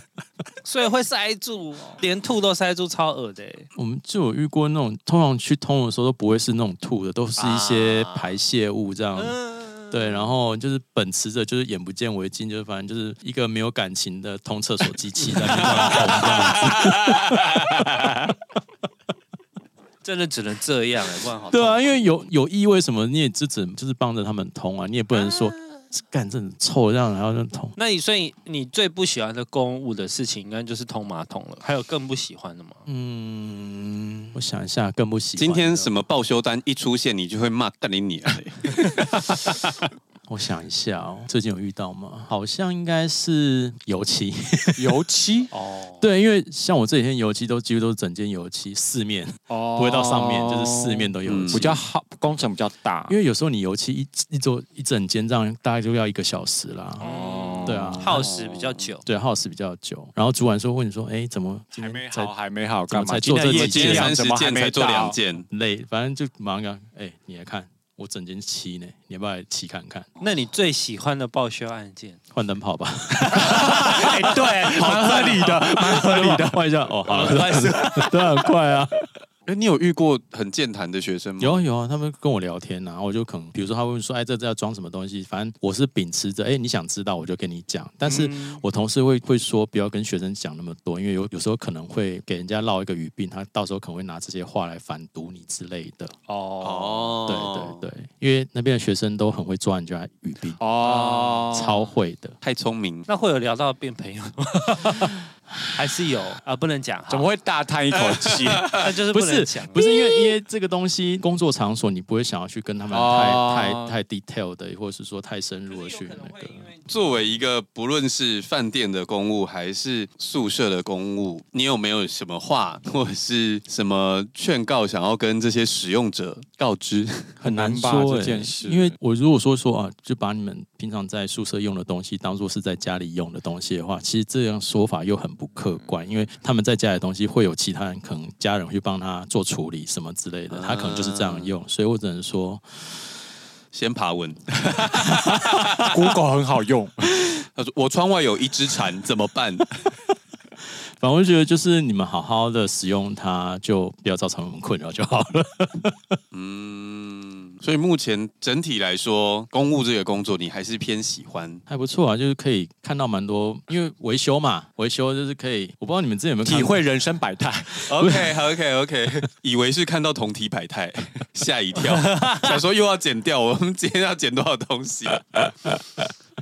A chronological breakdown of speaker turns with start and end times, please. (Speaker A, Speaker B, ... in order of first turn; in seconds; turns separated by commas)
Speaker A: 0.7-3.7, Speaker B: 3.8-9.4, Speaker A: 7.4-8.3, Speaker A: 9.2-10.3, Speaker B: 9.9-18.3, Speaker A: 15.3-17.2, Speaker A: 20.0-22.1, Speaker B: 21.5-27.7, Speaker A: 27.8-32.8, Speaker B: 32.9-35.9, Speaker C: 35.4-39.1, Speaker B: 40.3-45.0, Speaker D: 44.8-45.5, Speaker A: 45.5-46.0, Speaker B: 46.0-51.8, Speaker D: 49.5-53.2, Speaker C: 51.3-51.7, Speaker B: 53.1-57.1, Speaker D: 57.0-58.1, Speaker A: 57.0-59.0, Speaker B: 57.6-58.2, Speaker C: 58.1-58.9, Speaker B: 59.0-62.3, Speaker D: 61.8-65.2, Speaker B: 62.9-64.1, Speaker C: 63.4-65.5, Speaker B: 65.5-70.2, Speaker A: 70.2-72.2, Speaker B: 72.3-79.0, Speaker A: 73.1-76.2, Speaker D: 73.3-76.6, Speaker A: 77.1-78.5, Speaker C: 79.5-81.6, Speaker B: 81.4-96.1, Speaker A: 88.0-88.6, Speaker A: 96.3-97.2, Speaker C: 96.6-97.8, Speaker B: 97.3-100.6, Speaker D: 100.6-101.9, Speaker A: 100.9-101.4, Speaker B: 101.5-102.4, Speaker C: 102.4-103.1, Speaker A: 103.1-107.3, Speaker D: 107.1-108.8, Speaker C: 108.0-108.8, Speaker A: 108.8-109.9, Speaker B: 109.1-116.7, Speaker D: 112.9-113.9, Speaker A: 115.7-116.9, Speaker C: 116.9-127.4, Speaker B: 127.4-143.0, Speaker D: 127.4-128.9, Speaker C: 140.5-141.5, Speaker C: 143.7-145.9, Speaker D: 145.2-147.1, Speaker C: 147.6-149.7, Speaker B: 151.0-156.2, Speaker C: 156.3-161.6, Speaker B: 161.7-166.8, Speaker D: 166.4-167.9, Speaker C: 167.8-175.5, Speaker B: 168.0-168.4, Speaker A: 171.9-172.5